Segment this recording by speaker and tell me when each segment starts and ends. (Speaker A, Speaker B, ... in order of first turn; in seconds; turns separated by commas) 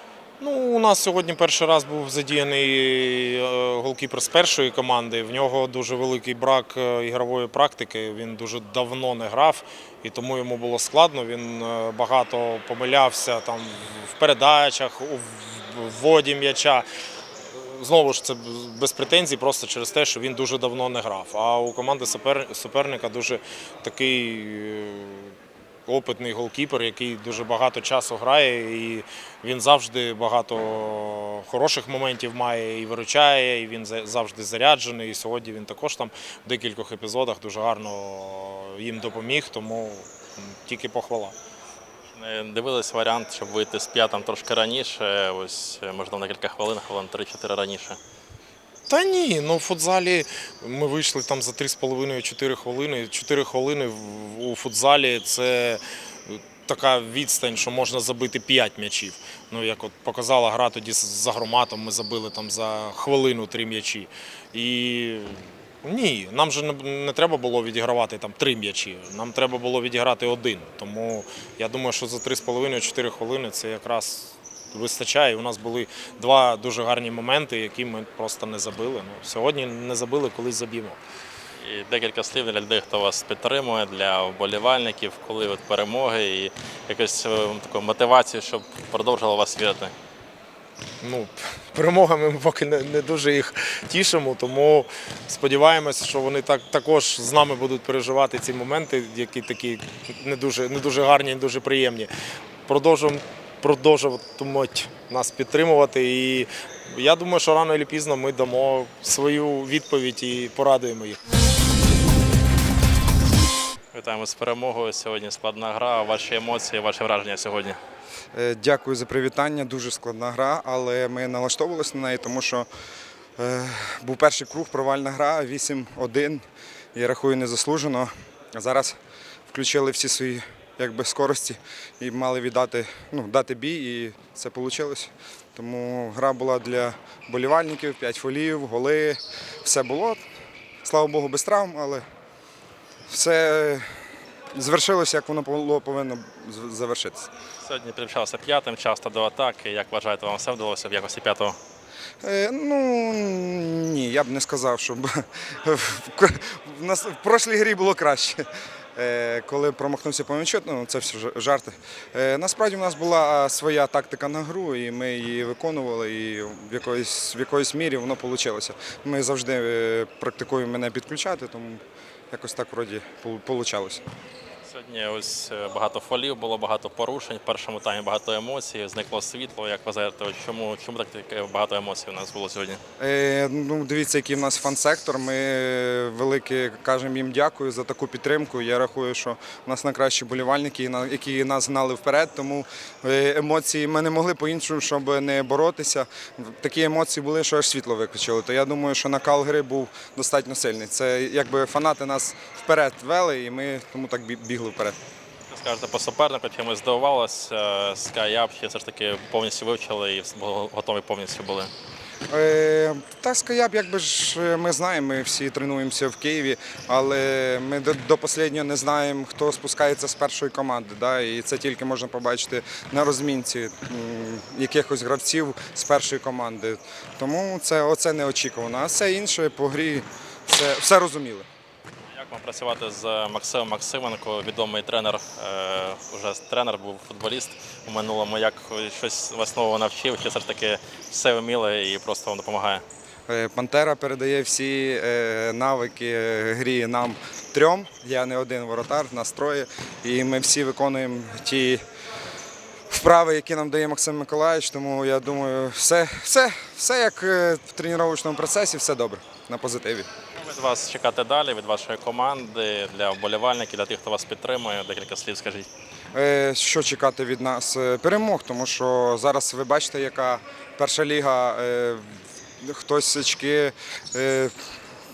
Speaker A: 0.4-16.9, Speaker A: 17.5-25.4, Speaker A: 25.9-41.4, Speaker B: 42.1-48.0, Speaker A: 48.9-81.0, Speaker B: 81.6-89.9, Speaker A: 91.0-102.1, Speaker A: 102.7-111.2, Speaker B: 113.9-117.8, Speaker C: 118.3-122.7, Speaker C: 123.4-126.4, Speaker C: 127.0-129.0, Speaker C: 129.5-140.2, Speaker C: 140.8-142.0, Speaker C: 143.1-143.9, Speaker C: 144.6-147.3, Speaker B: 147.6-151.6, Speaker C: 152.2-174.0, Speaker B: 174.7-182.8, Speaker C: 183.0-205.0, Speaker B: 205.5-211.7, Speaker C: 212.3-231.5, Speaker B: 232.1-242.8, Speaker C: 243.3-251.8, Speaker C: 252.9-260.1, Speaker B: 260.4-265.7, Speaker C: 266.1-274.5